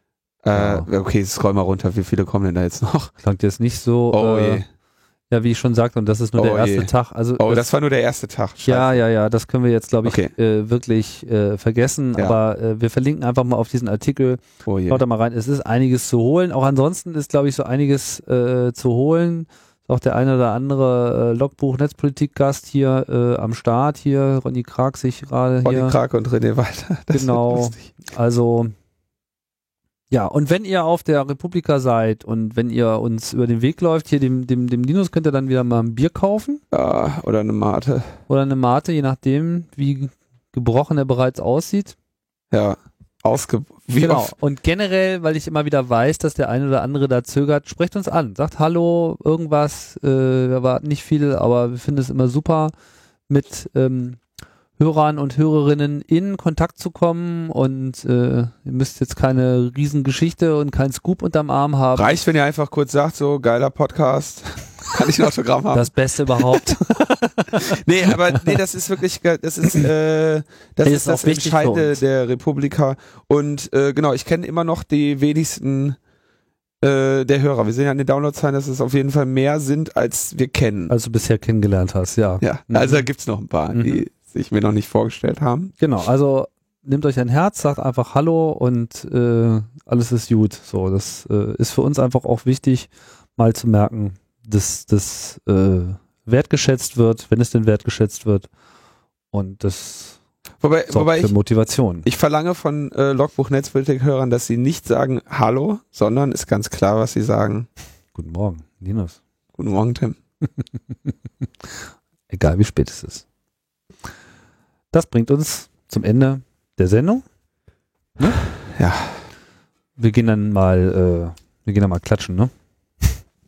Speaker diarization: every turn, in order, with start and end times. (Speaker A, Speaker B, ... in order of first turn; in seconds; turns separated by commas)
Speaker A: 0.4-3.1, Speaker B: 0.5-0.9, Speaker B: 3.2-4.6, Speaker A: 4.1-4.6, Speaker B: 5.3-7.7, Speaker A: 6.4-9.0, Speaker B: 8.7-25.9, Speaker A: 10.1-10.3, Speaker A: 14.6-15.0, Speaker A: 25.6-27.9, Speaker B: 27.1-28.7, Speaker B: 30.1-36.6, Speaker A: 36.7-38.1, Speaker B: 38.3-42.0, Speaker A: 42.5-44.3, Speaker B: 44.0-52.7, Speaker B: 53.3-54.2, Speaker B: 54.8-62.2, Speaker A: 62.0-65.9, Speaker B: 65.7-67.8, Speaker A: 67.5-76.0, Speaker B: 70.8-72.0, Speaker A: 76.8-80.9, Speaker B: 80.9-83.1, Speaker A: 82.4-85.7, Speaker B: 83.7-84.0, Speaker B: 85.8-98.5, Speaker B: 99.3-100.2, Speaker A: 100.6-101.3, Speaker B: 100.9-102.1, Speaker A: 102.0-107.7, Speaker B: 108.1-109.2, Speaker A: 109.5-110.2, Speaker B: 110.5-111.1, Speaker B: 111.6-113.2, Speaker B: 114.9-117.2, Speaker A: 118.6-119.2, Speaker B: 120.0-123.2